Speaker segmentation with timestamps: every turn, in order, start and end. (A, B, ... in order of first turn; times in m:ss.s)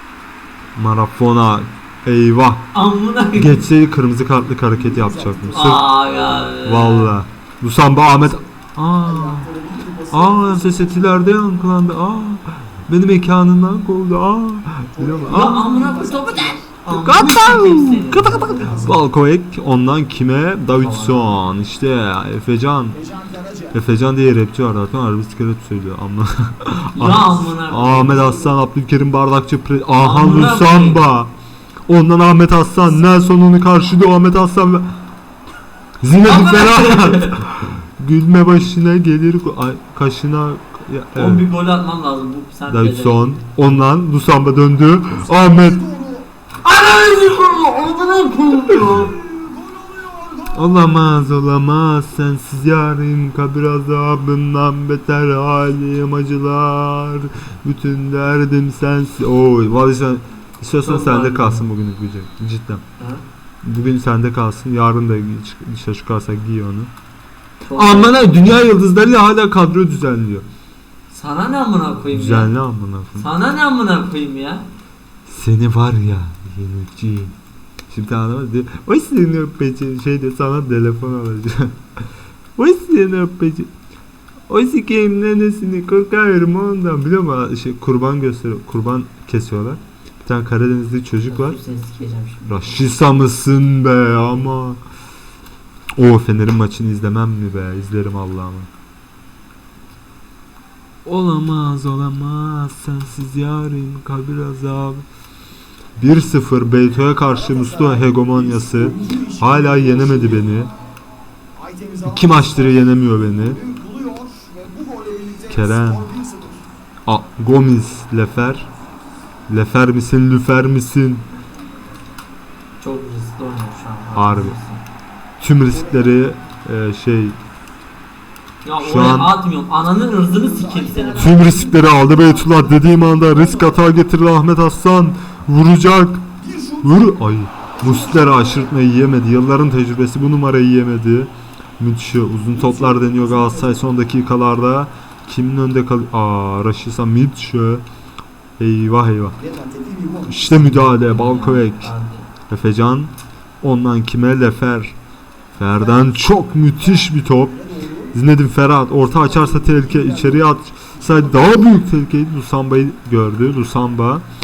0:00.8-0:02.7 A
0:02.7-0:03.7 B
0:03.3-0:05.8 A
0:04.8-0:06.0 C
0:05.5-0:07.2 B
0:06.6-0:09.5 A
0:09.0-0:11.4 C
0:10.1-0:15.6 A
0:14.9-0:16.6 C
0:15.2-0:19.0 B
0:16.9-0:23.0 A
0:18.3-0:18.9 C
0:20.7-0:21.5 B
0:22.9-0:23.8 C
0:23.7-0:31.3 A
0:27.0-0:28.6 B
0:30.0-0:31.1 B
0:31.9-0:34.9 A
0:36.0-0:41.5 A
0:36.2-0:37.4 B
0:41.1-0:43.7 B
0:42.7-0:45.8 A
0:45.2-0:46.3 C
0:46.6-0:49.1 B
0:47.3-0:47.8 A
0:48.4-0:49.1 A
0:49.0-0:50.9 C
0:50.5-1:02.8 A
1:00.8-1:01.6 B
1:03.0-1:03.2 B
1:03.6-1:06.9 A
1:07.6-1:08.2 B
1:07.7-1:10.5 A
1:11.1-1:12.6 B
1:12.1-1:13.3 A
1:13.1-1:14.7 B
1:15.2-1:17.4 A
1:17.9-1:21.8 A
1:22.6-1:23.7 A
1:24.5-1:31.6 A
1:31.2-1:32.8 B
1:32.5-1:34.8 A
1:36.0-1:38.7 A
1:41.0-1:45.0 A
1:46.0-1:50.7 A
1:47.3-1:50.7 C
1:51.6-1:56.6 C
1:52.0-1:53.6 A
1:55.5-1:56.1 A
1:57.1-1:58.7 A
1:59.5-2:01.3 A
2:02.8-2:04.8 B
2:04.1-2:04.6 A
2:05.4-2:07.4 A
2:05.7-2:06.1 C
2:08.6-2:11.4 B
2:08.8-2:09.4 A
2:09.8-2:13.9 C
2:11.2-2:16.3 A
2:16.4-2:17.0 C
2:16.8-2:27.8 A
2:17.8-2:18.7 C
2:22.5-2:23.9 C
2:28.6-2:29.4 A
2:29.4-2:30.7 C
2:30.3-2:31.9 A
2:30.6-2:32.3 B
2:32.5-2:35.0 A
2:35.6-2:37.6 A
2:35.8-2:36.1 C
2:36.8-2:38.1 C
2:38.1-2:44.3 A
2:39.0-2:41.8 C